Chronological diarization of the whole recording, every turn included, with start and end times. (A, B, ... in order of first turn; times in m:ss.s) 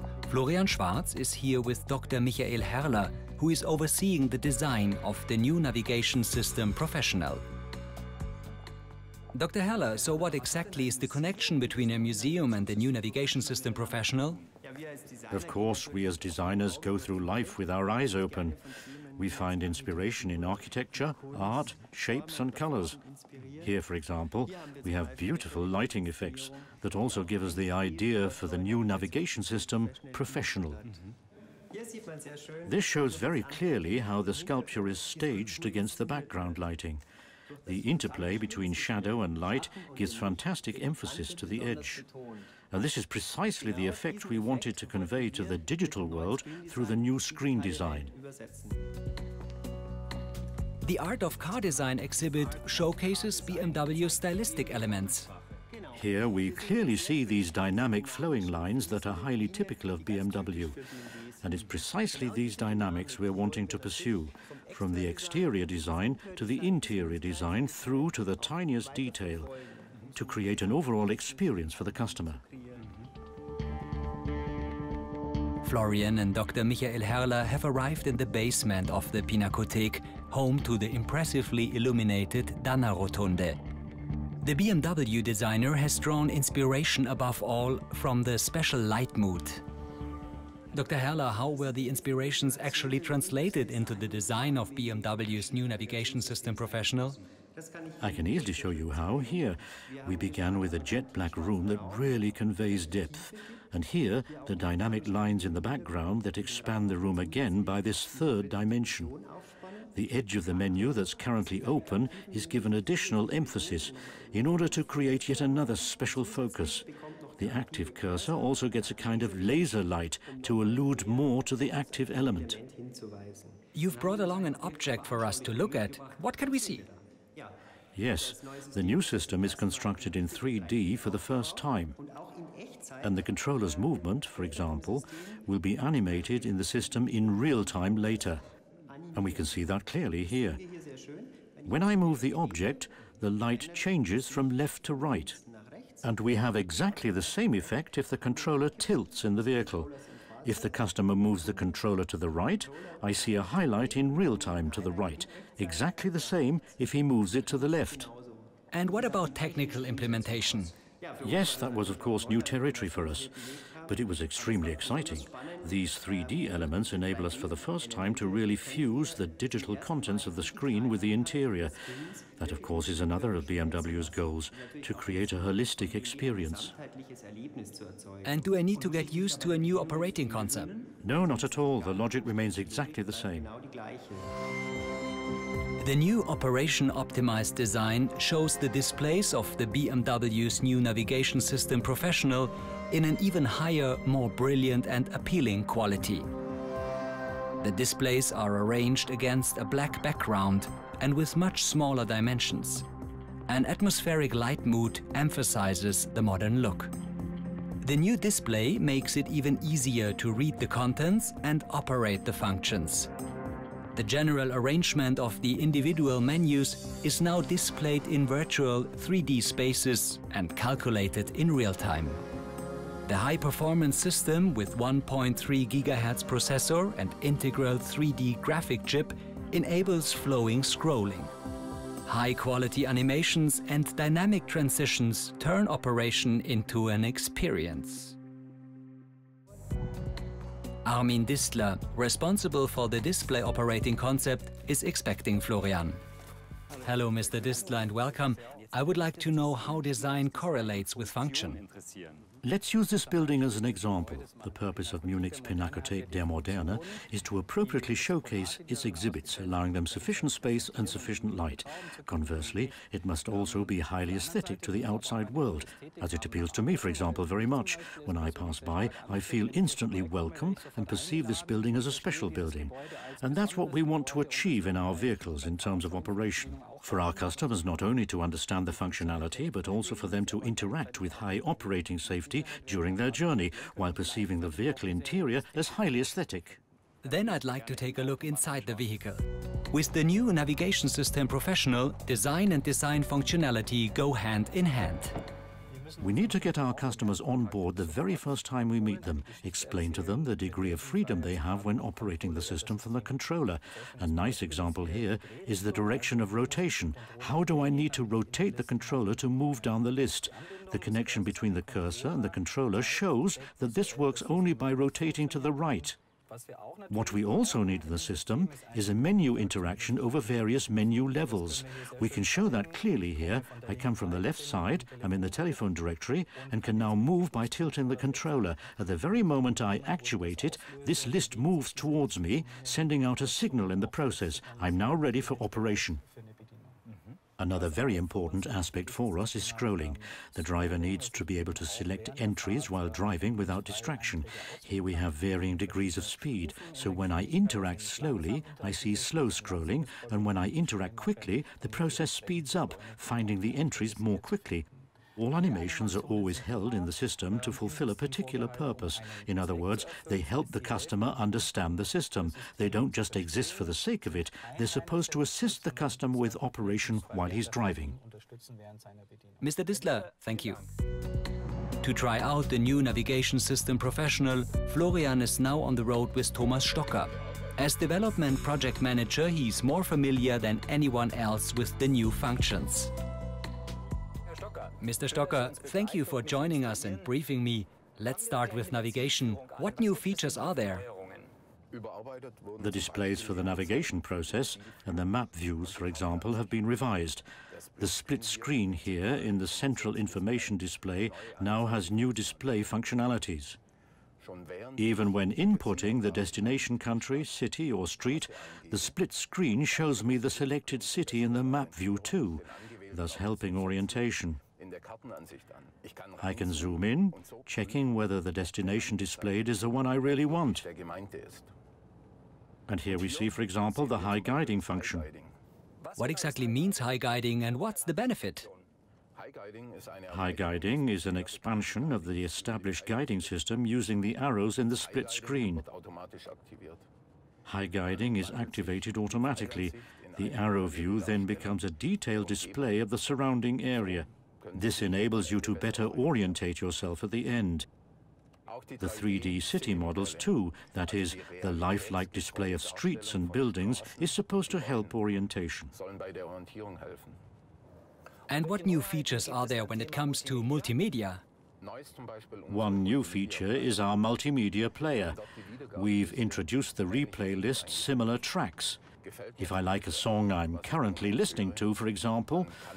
0:00.3-0:07.4 A
0:09.3-0:14.4 A
0:15.3-0:18.6 B
0:19.2-0:23.0 B
0:23.6-0:30.8 B
0:32.6-0:37.0 B
0:37.7-0:42.0 B
0:42.7-0:48.1 B
0:50.8-0:55.3 A
0:55.9-1:00.8 B
1:01.4-1:09.5 B
1:10.1-1:12.4 B
1:15.6-1:23.6 A
1:24.4-1:29.6 A
1:30.7-1:37.2 A
1:38.0-1:49.2 B
1:49.9-1:56.9 B
1:57.4-2:02.6 B
2:03.8-2:06.9 A
2:08.0-2:12.0 B
2:13.0-2:18.4 B
2:19.1-2:20.6 B
2:21.6-2:25.4 B
2:26.0-2:29.9 B
2:30.4-2:38.1 B
2:38.7-2:40.7 A
2:41.2-2:43.3 B
2:43.9-2:51.7 B
2:52.4-2:56.8 B
2:58.2-3:00.9 A
3:01.0-3:03.5 B
3:05.8-3:16.3 A
3:17.6-3:22.8 A
3:23.5-3:26.9 A
3:27.8-3:33.1 A
3:33.9-3:42.2 A
3:43.0-3:51.3 A
3:52.0-3:58.2 A
4:00.8-4:06.0 A
4:06.8-4:11.6 A
4:12.4-4:46.6 B
4:47.0-4:55.2 A
4:56.0-5:16.0 B
5:16.9-5:36.0 B
5:37.4-6:08.0 B
6:09.4-6:10.7 A
6:11.8-6:22.9 A
6:24.5-6:31.3 A
6:32.6-6:37.2 B
6:37.8-6:43.6 B
6:44.8-6:54.4 B
6:56.2-7:00.7 B
7:02.7-7:05.1 B
7:06.0-7:08.5 A
7:10.1-7:15.7 B
7:17.4-7:27.7 B
7:28.8-7:35.7 B
7:38.3-7:41.2 A
7:42.5-7:45.2 B
7:45.7-7:48.8 B
7:49.4-7:52.5 B